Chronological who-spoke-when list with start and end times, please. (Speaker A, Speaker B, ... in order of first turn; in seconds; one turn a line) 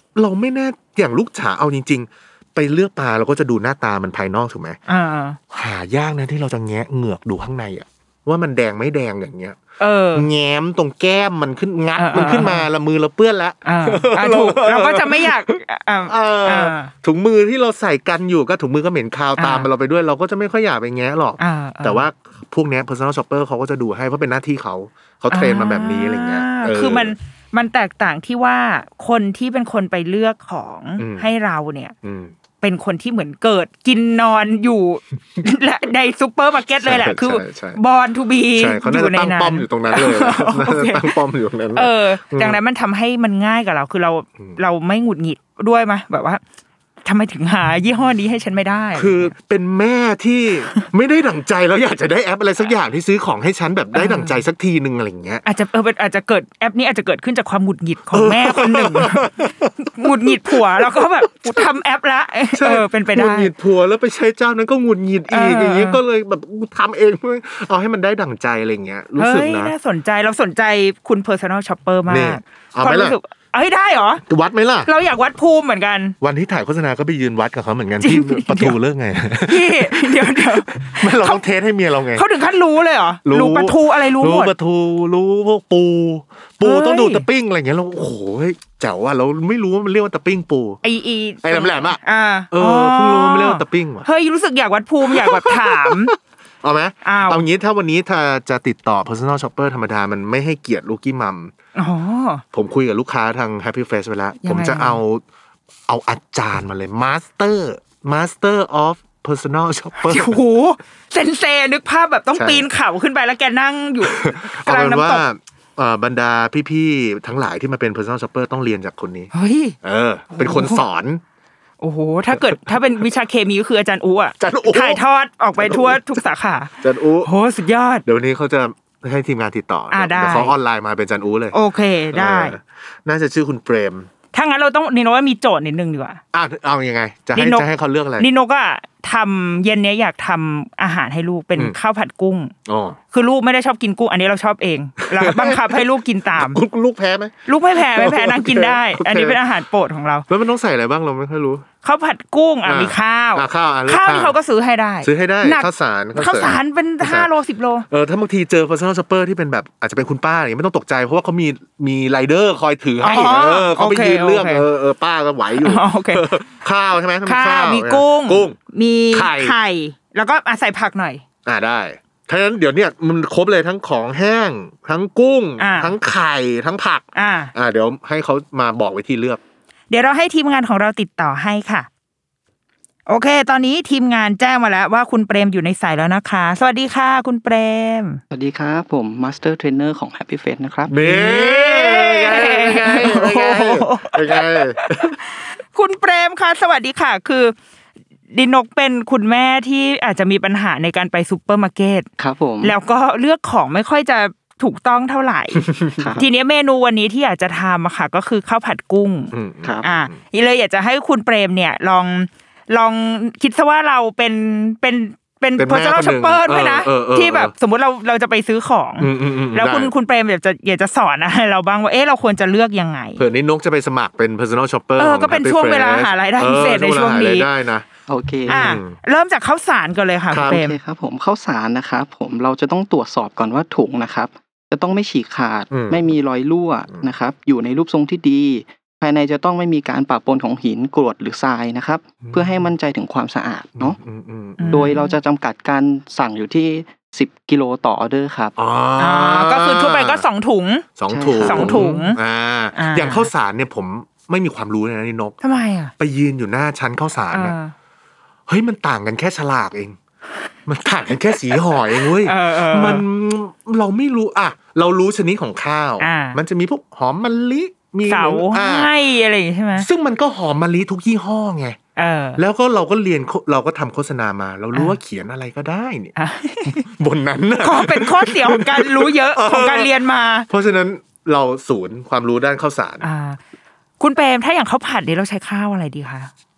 Speaker A: 0.1-4.8
Speaker B: 4.9-5.4
Speaker A: 5.5-9.6
Speaker B: 9.8-10.3
Speaker A: 10.1-27.1
Speaker B: 11.9-12.7
Speaker B: 13.6-16.9
Speaker B: 19.4-19.7
Speaker B: 21.4-22.1
Speaker B: 25.3-31.9
Speaker A: 31.0-31.3
Speaker A: 32.0-32.3
Speaker B: 32.6-41.1
Speaker A: 36.8-37.8
Speaker A: 38.5-42.6
Speaker B: 41.7-46.4
Speaker B: 47.0-49.3
Speaker A: 48.9-55.4
Speaker B: 53.9-54.4
Speaker B: 55.4-63.5
Speaker A: 58.1-61.5
Speaker A: 62.5-69.7
Speaker B: 65.3-66.0
Speaker B: 69.2-74.2
Speaker A: 72.1-73.2
Speaker A: 74.2-74.9
Speaker B: 74.8-76.2
Speaker A: 76.2-82.2
Speaker B: 78.0-78.8
Speaker B: 79.4-81.4
Speaker B: 82.1-84.5
Speaker A: 83.2-90.8
Speaker B: 86.6-87.2
Speaker B: 90.8-96.1
Speaker A: 91.4-92.0
Speaker A: 92.5-94.1
Speaker A: 95.0-101.5
Speaker B: 97.0-97.4
Speaker B: 101.8-102.4
Speaker A: 102.5-105.2
Speaker B: 104.4-105.0
Speaker A: 105.9-110.4
Speaker B: 110.0-115.2
Speaker A: 112.3-112.7
Speaker A: 114.0-121.2
Speaker B: 119.3-119.8
Speaker B: 120.3-120.8
Speaker B: 121.8-128.0
Speaker A: 122.3-122.7
Speaker A: 124.4-125.0
Speaker A: 125.6-126.2
Speaker A: 126.8-127.3
Speaker A: 128.0-131.6
Speaker B: 129.9-130.5
Speaker B: 131.5-132.6
Speaker A: 132.1-134.1
Speaker B: 134.3-136.2
Speaker A: 136.3-138.3
Speaker B: 137.3-137.7
Speaker B: 138.2-142.5
Speaker A: 142.7-143.0
Speaker B: 143.1-146.6
Speaker A: 145.1-149.4
Speaker B: 147.4-150.2
Speaker A: 150.3-151.7
Speaker B: 151.8-157.9
Speaker A: 152.6-154.4
Speaker A: 155.0-157.3
Speaker A: 157.9-168.6
Speaker B: 163.0-164.7
Speaker B: 165.6-166.2
Speaker B: 167.2-171.2
Speaker A: 169.1-169.6
Speaker A: 171.4-179.4
Speaker B: 175.6-175.9
Speaker B: 177.1-177.5
Speaker B: 179.9-181.9
Speaker B: 183.1-188.2
Speaker C: 188.3-191.1
Speaker A: 190.9-195.1
Speaker B: 191.0-197.5
Speaker B: 198.3-202.1
Speaker C: 202.2-202.7
Speaker B: 202.6-205.7
Speaker A: 205.5-206.2
Speaker C: 206.0-206.3
Speaker B: 206.2-223.2
Speaker A: 209.3-210.2
Speaker C: 209.6-209.9
Speaker A: 215.6-217.5
Speaker A: 219.0-219.9
Speaker A: 223.2-227.9
Speaker B: 225.0-227.5
Speaker C: 228.1-228.8
Speaker A: 228.5-228.9
Speaker B: 228.5-230.8
Speaker A: 230.3-230.6
Speaker C: 230.5-244.0
Speaker A: 235.7-236.1
Speaker A: 243.8-244.9
Speaker B: 244.6-245.2
Speaker C: 244.7-248.5
Speaker A: 248.6-250.2
Speaker B: 249.0-252.2
Speaker A: 250.9-255.4
Speaker C: 251.1-251.9
Speaker B: 252.7-253.3
Speaker B: 255.4-255.9
Speaker A: 256.0-257.5
Speaker B: 257.3-257.7
Speaker A: 258.5-260.0
Speaker A: 260.6-268.9
Speaker B: 262.2-263.1
Speaker B: 266.0-266.4
Speaker B: 268.1-269.9
Speaker A: 269.8-271.8
Speaker B: 271.9-272.4
Speaker A: 272.4-276.1
Speaker B: 276.1-276.9
Speaker A: 276.6-279.9
Speaker B: 277.6-280.5
Speaker A: 280.5-283.0
Speaker B: 283.0-283.4
Speaker B: 284.0-286.3